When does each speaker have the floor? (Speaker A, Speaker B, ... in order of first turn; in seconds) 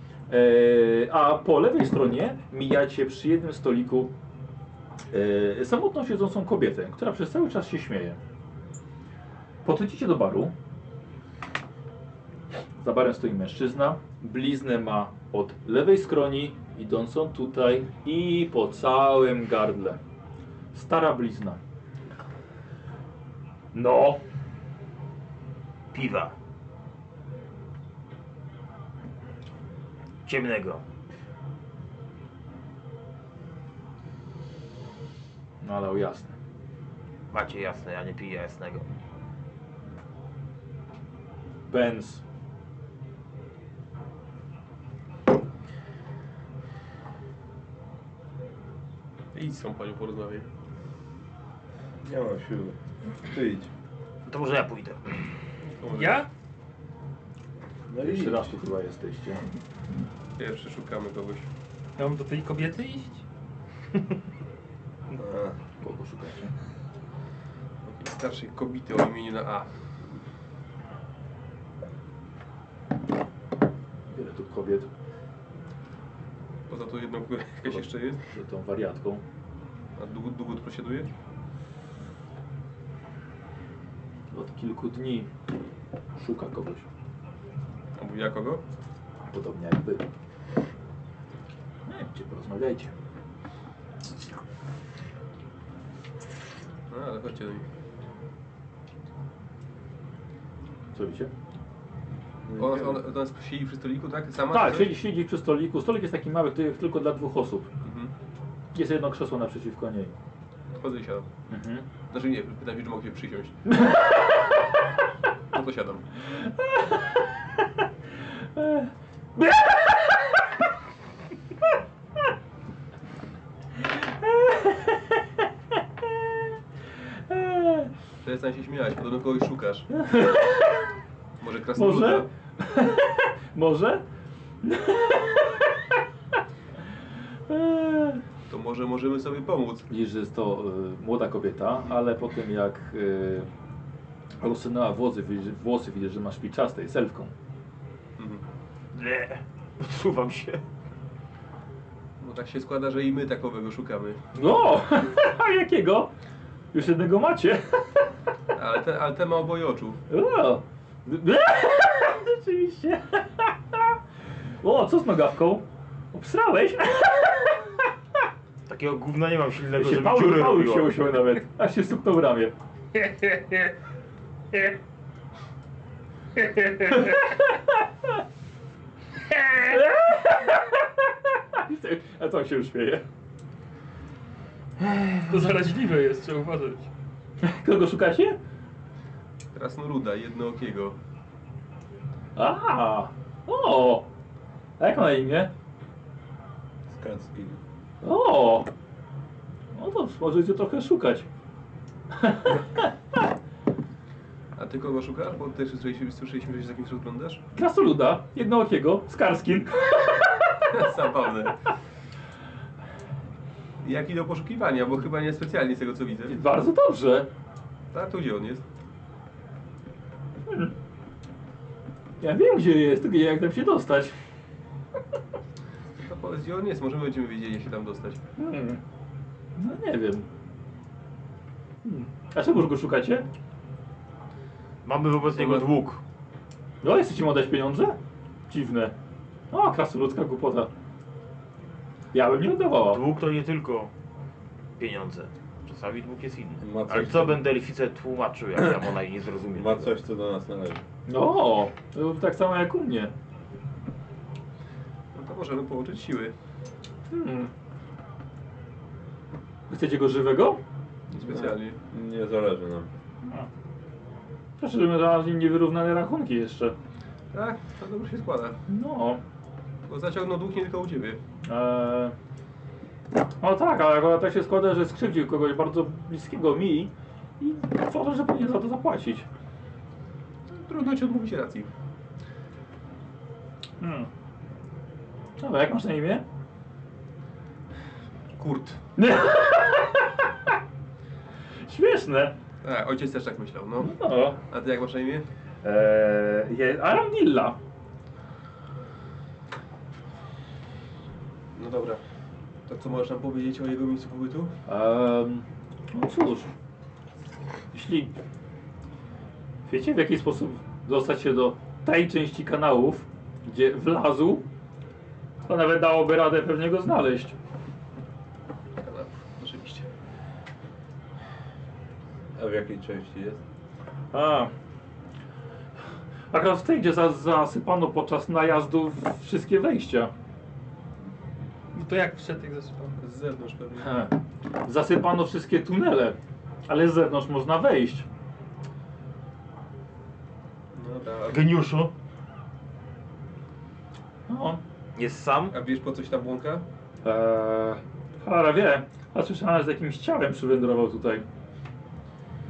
Speaker A: 0.3-4.1, 5.1-8.2, 9.6-10.5, 12.8-20.0, 20.7-21.6, 23.7-24.2, 35.6-36.3, 41.7-42.2, 58.0-59.5, 65.8-66.5, 74.1-74.9, 77.7-79.2, 84.3-85.3, 86.2-86.8, 89.3-90.0, 91.8-92.9, 100.9-101.3, 104.5-107.7, 108.7-110.1, 111.5-111.8, 113.7-114.5, 116.3-117.6, 118.5-120.5, 123.9-125.2, 126.0-126.4, 127.3-127.9, 129.9-130.9, 131.7-134.0, 134.6-135.7, 137.5-138.2, 139.9-143.5, 144.4-147.3, 154.3-156.1, 156.7-158.1, 160.1-163.9, 164.6-167.8, 169.8-172.5, 177.7-178.1, 179.5-183.0, 184.8-185.2, 187.4-188.4, 192.3-194.1, 194.8-195.5, 198.0-198.7, 199.7-201.3, 202.1-202.9, 207.5-210.8, 216.3-217.3, 222.2-224.1, 228.4-228.8, 229.6-230.2, 231.8-233.3, 236.8-238.0, 238.5-238.9, 239.5-240.7, 242.1-243.0, 251.1-253.1, 257.1-257.5, 259.7-260.6, 263.2-263.5, 264.6-266.8, 268.7-269.2, 271.4-272.1, 273.4-279.3, 283.8-284.1, 285.4-286.2, 289.0-290.5, 291.6-292.4, 293.8-294.4, 295.6-297.6, 304.7-306.5, 307.7-308.1, 309.7-314.4, 315.4-317.3, 324.1-324.5, 326.3-330.1, 333.8-338.1, 344.3-344.6, 347.0-351.2
Speaker B: 25.9-26.3, 30.2-30.8, 37.3-38.9, 54.2-55.2, 148.9-150.6, 168.7-171.0, 234.8-236.0, 242.8-243.9, 244.8-249.9, 341.3-341.9, 344.9-345.6
Speaker C: 49.3-50.5, 55.6-56.2, 60.4-61.5, 67.8-70.2, 76.7-78.2, 80.0-81.1, 88.0-88.6, 96.9-97.7, 102.5-104.9, 107.8-108.1, 110.7-111.3, 112.1-113.5, 115.5-116.0, 128.2-129.9, 131.4-132.3, 138.5-139.9, 148.2-148.4, 152.2-154.2, 158.5-160.0, 189.5-190.9, 204.5-207.4, 210.7-211.6, 213.8-216.4, 217.9-218.6, 226.0-228.2, 235.2-235.7, 255.1-256.3, 261.1-261.8, 267.3-268.6, 269.9-271.2, 280.5-281.7, 288.4-288.8, 292.6-295.2, 301.5-302.0, 302.7-304.5, 318.8-319.9, 333.0-334.0, 340.7-341.4, 345.5-346.6
Speaker D: 52.0-53.7, 57.9-58.5, 65.2-65.5, 102.5-103.0, 196.9-197.6, 246.6-247.5, 249.5-250.8, 261.2-262.9, 322.3-323.4
Speaker E: 55.9-56.3, 62.0-63.2, 173.1-173.7, 176.4-177.1, 185.3-186.9, 331.7-333.0